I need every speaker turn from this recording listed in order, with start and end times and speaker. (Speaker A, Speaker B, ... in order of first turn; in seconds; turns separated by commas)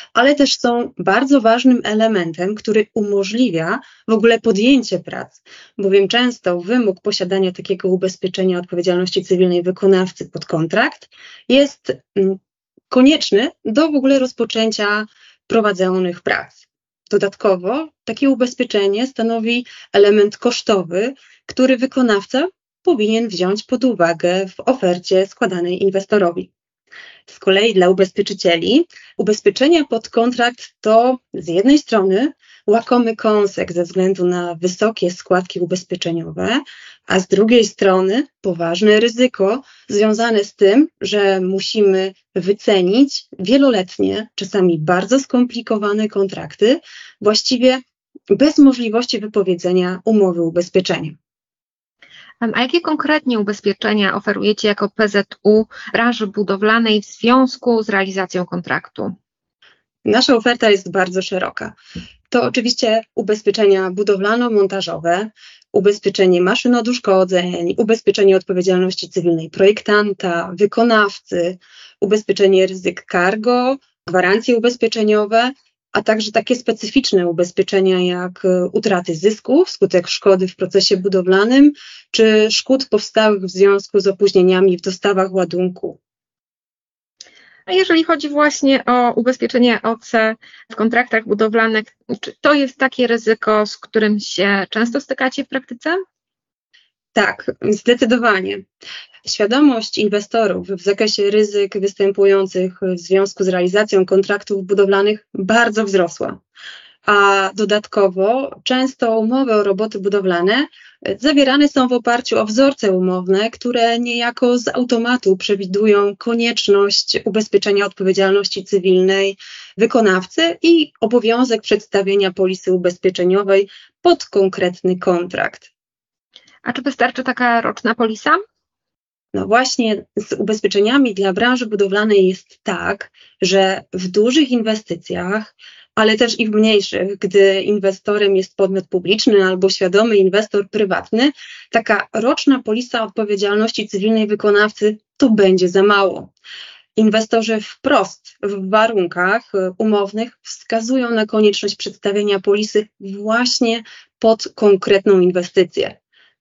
Speaker A: 0.1-12.4, Speaker A: 12.9-26.5, Speaker A: 27.3-47.8, Speaker A: 48.3-51.2, Speaker B: 52.4-59.1, Speaker A: 60.0-61.8, Speaker A: 62.3-86.0, Speaker B: 87.7-96.0, Speaker A: 97.2-98.6, Speaker A: 99.2-106.4, Speaker A: 107.0-125.7, Speaker B: 126.7-128.4, Speaker A: 129.3-146.3, Speaker A: 147.0-155.9